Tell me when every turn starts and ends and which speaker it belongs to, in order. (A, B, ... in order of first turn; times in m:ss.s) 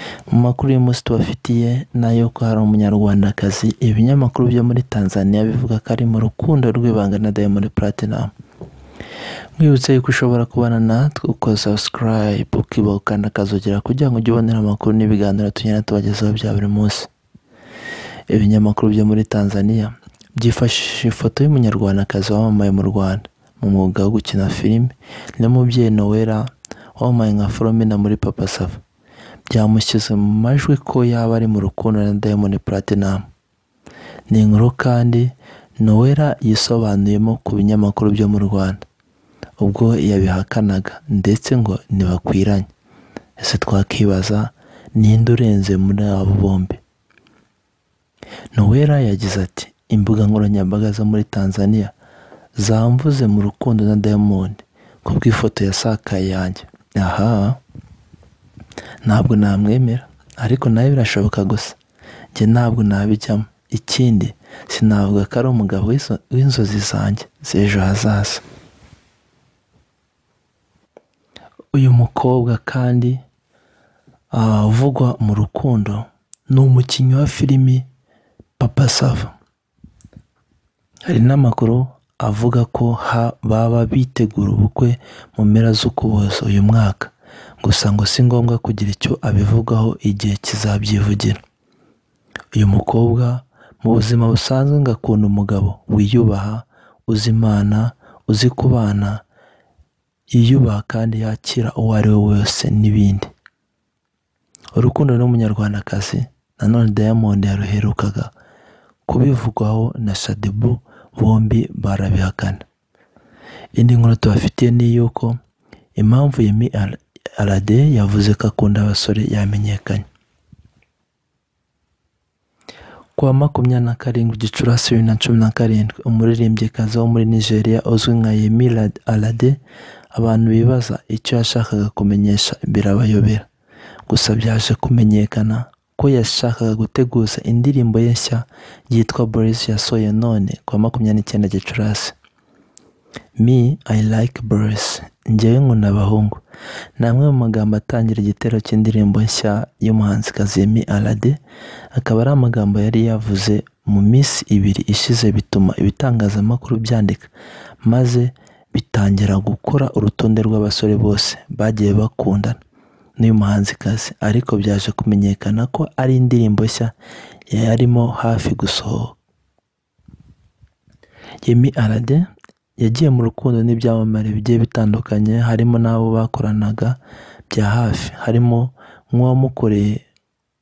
0:00.3-0:08.3 A
0:09.6-0:17.1 A
0:18.3-0:28.8 A
0:29.5-0:33.3 A
0:34.3-0:38.8 A
0:39.6-0:42.7 A
0:43.4-0:46.8 A
0:48.5-0:51.9 A
0:52.6-0:57.6 A
0:59.0-1:01.8 A
1:02.3-1:08.4 A
1:11.7-1:13.2 A
1:14.3-1:17.8 A
1:18.6-1:19.3 A
1:21.0-1:31.4 A
1:32.5-1:39.2 A
1:40.3-1:43.3 A
1:44.7-1:48.3 A
1:49.0-1:52.6 A
1:53.8-1:55.4 A
1:56.0-2:00.0 A
2:03.2-2:09.6 A
2:10.1-2:13.5 A
2:14.1-2:22.2 A
2:23.4-2:26.4 A
2:27.0-2:31.4 A
2:31.9-2:37.3 A
2:37.8-2:42.6 A
2:43.2-2:46.9 A
2:47.5-2:49.2 A
2:51.4-2:52.3 A
2:52.8-2:57.0 A
2:57.5-3:00.0 A